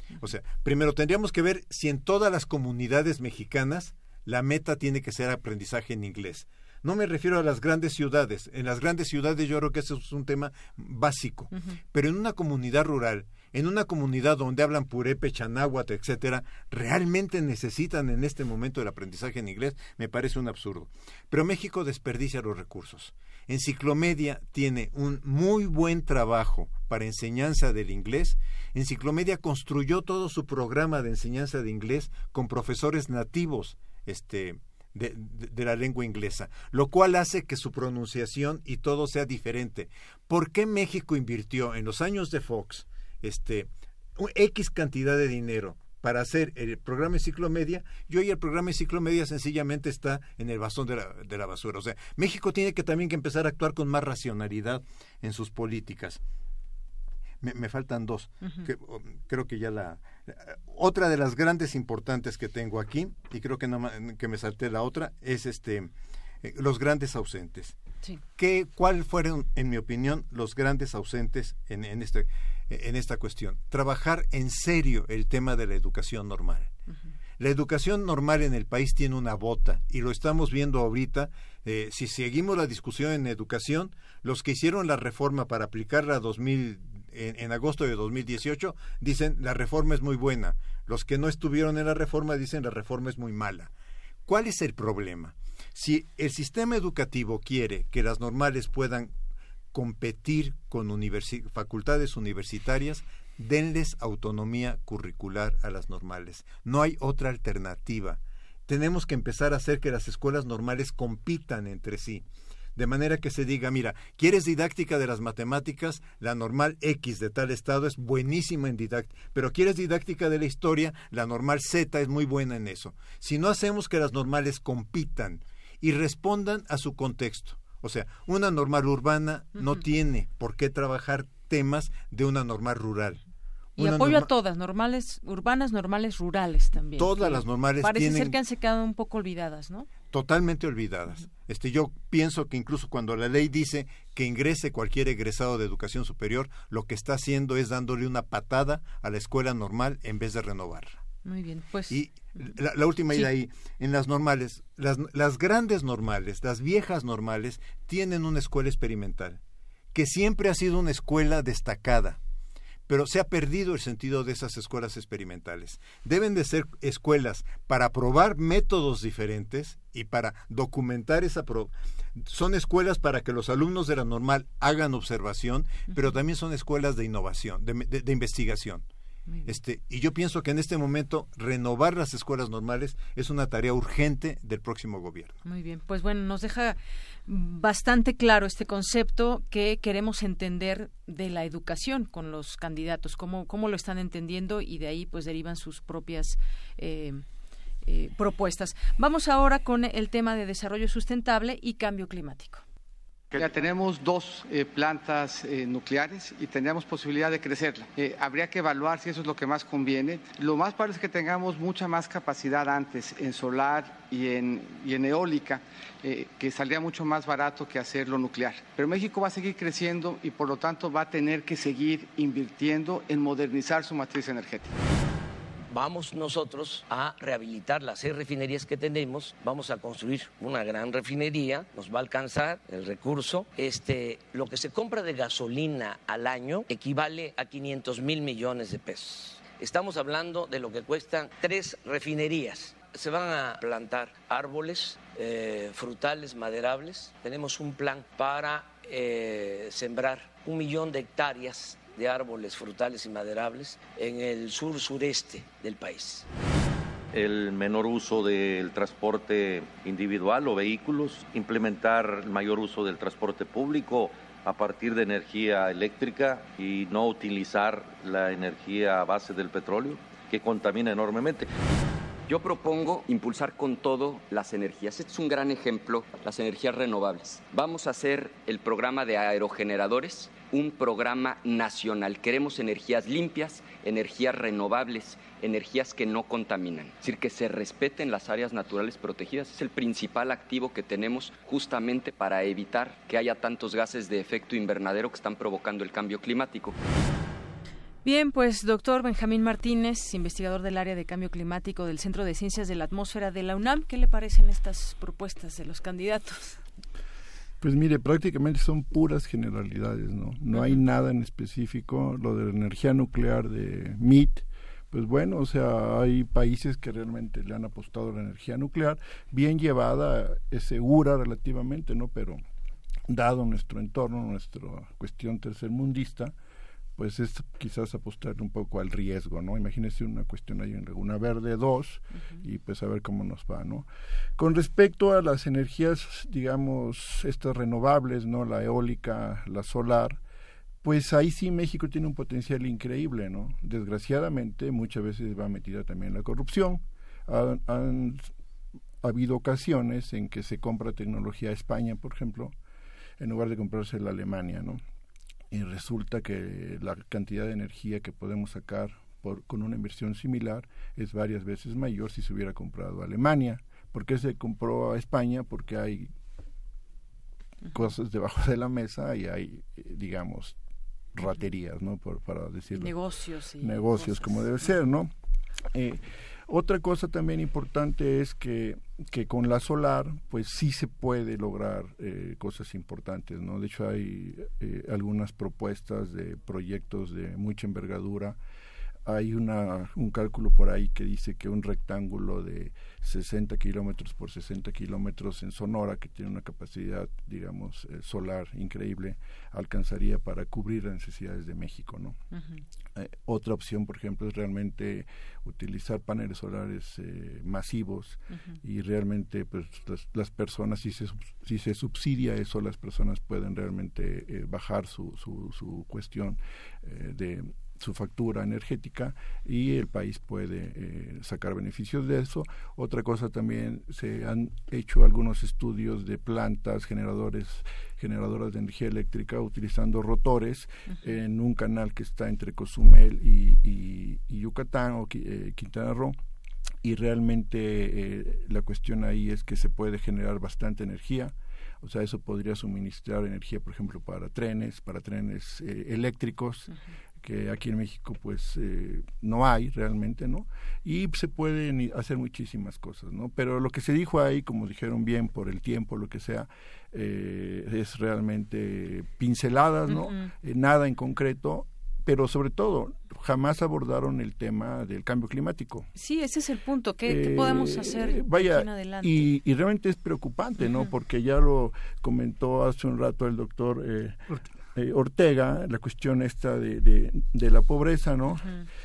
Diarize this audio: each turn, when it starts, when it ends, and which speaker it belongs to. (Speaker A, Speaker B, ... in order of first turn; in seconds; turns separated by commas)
Speaker A: 0.2-56.2, Speaker A: 57.4-65.9, Speaker A: 66.4-67.8, Speaker A: 68.4-76.7, Speaker A: 77.4-93.7, Speaker A: 94.3-99.1, Speaker A: 99.7-112.2, Speaker A: 112.8-133.2, Speaker A: 133.8-134.3, Speaker B: 133.8-139.9, Speaker A: 137.0-138.4, Speaker A: 140.1-151.0, Speaker B: 151.2-152.5, Speaker A: 151.9-159.4, Speaker A: 159.9-162.2, Speaker A: 162.9-178.8, Speaker B: 179.3-179.5, Speaker A: 179.4-185.4, Speaker B: 185.4-197.2, Speaker B: 197.8-202.6, Speaker C: 203.3-224.8, Speaker D: 225.7-256.3, Speaker E: 257.1-271.5, Speaker F: 272.3-296.8, Speaker B: 298.0-306.6, Speaker G: 307.6-322.4, Speaker B: 310.5-310.8, Speaker G: 323.1-326.3, Speaker G: 327.0-340.2, Speaker G: 340.8-348.3, Speaker G: 349.0-352.5, Speaker G: 353.2-354.8, Speaker G: 355.5-366.1, Speaker G: 367.7-370.6, Speaker G: 371.1-373.0, Speaker B: 372.7-374.8, Speaker G: 373.6-375.1, Speaker G: 375.7-388.4, Speaker G: 389.1-402.2, Speaker G: 403.0-436.2, Speaker G: 436.8-465.9, Speaker B: 459.9-460.2, Speaker B: 465.9-469.3, Speaker G: 467.0-474.2, Speaker G: 474.7-478.5